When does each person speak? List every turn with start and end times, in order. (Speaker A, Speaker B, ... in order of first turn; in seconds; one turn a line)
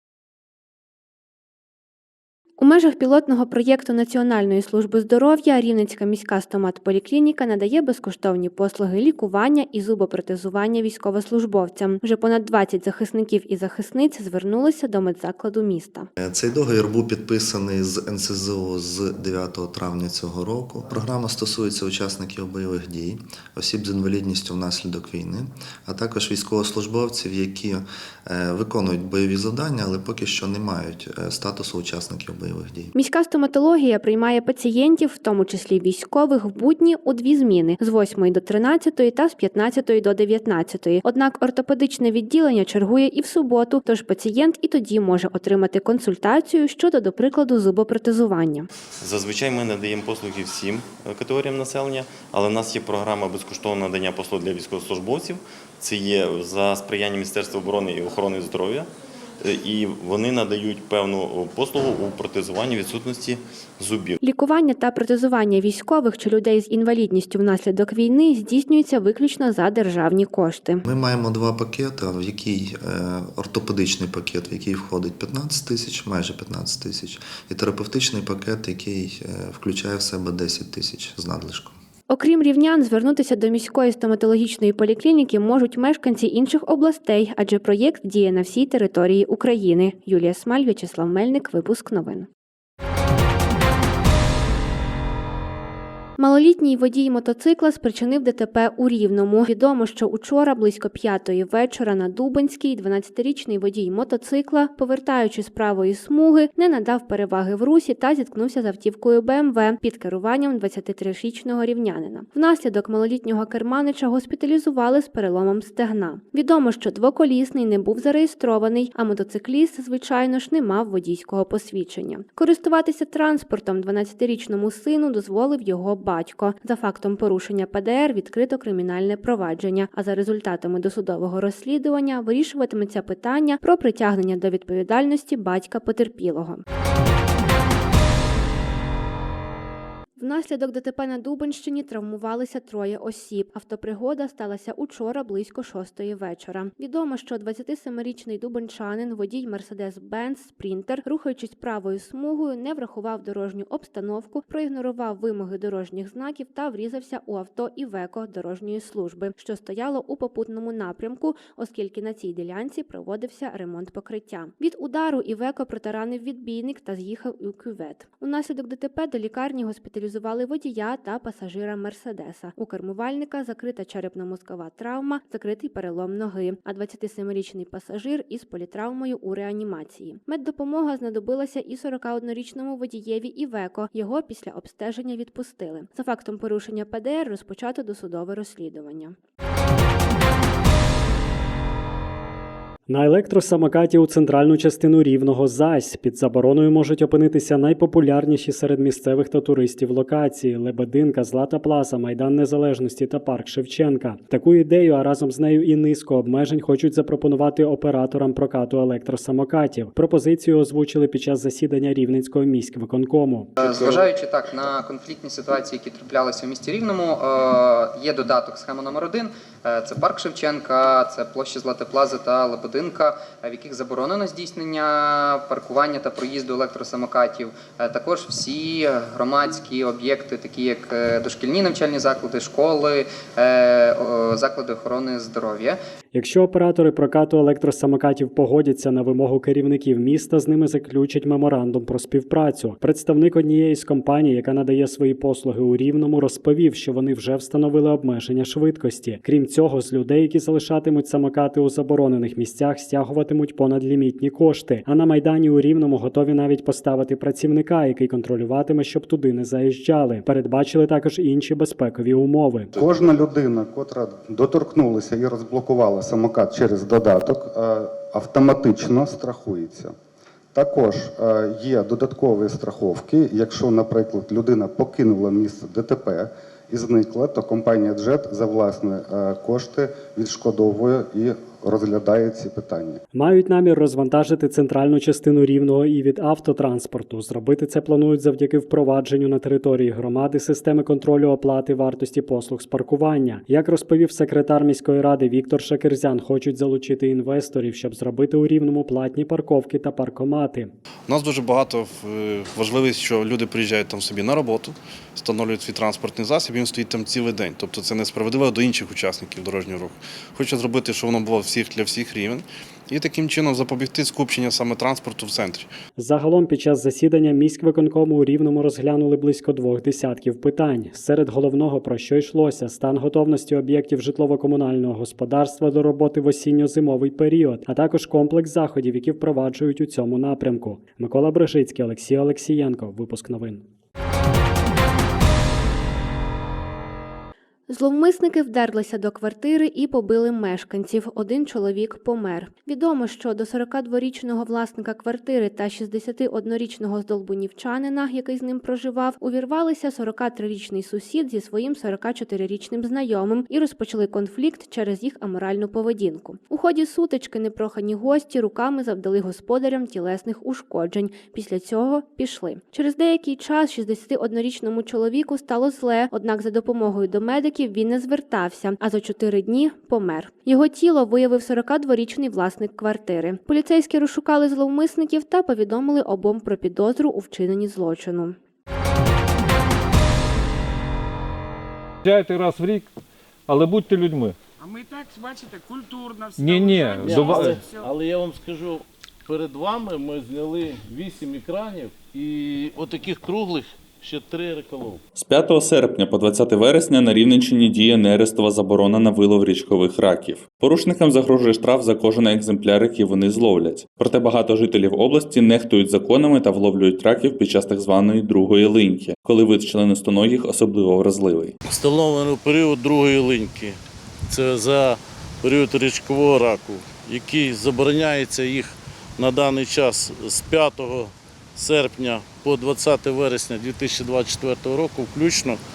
Speaker A: 2.6-16.1
Speaker B: 16.2-32.9
Speaker A: 32.9-48.7
Speaker C: 49.0-58.9
Speaker C: 59.4-64.2
Speaker A: 64.2-70.8
Speaker B: 70.8-81.8
Speaker A: 82.1-92.3
Speaker A: 96.2-136.6
Speaker A: 140.2-189.1
Speaker D: 192.9-213.5
Speaker E: 213.6-235.8
Speaker D: 236.1-262.7
Speaker F: 262.7-269.9
Speaker F: 270.5-283.0
Speaker D: 283.1-300.7
Speaker G: 301.1-315.7
Speaker D: 315.9-333.6
Speaker A: 337.7-378.4
Speaker H: 382.0-382.9
Speaker H: 383.5-384.4
Speaker I: 384.6-387.9
Speaker H: 386.4-387.6
Speaker J: 387.0-395.0
Speaker K: 395.1-411.5
Speaker J: 411.7-413.8
Speaker J: 414.3-425.6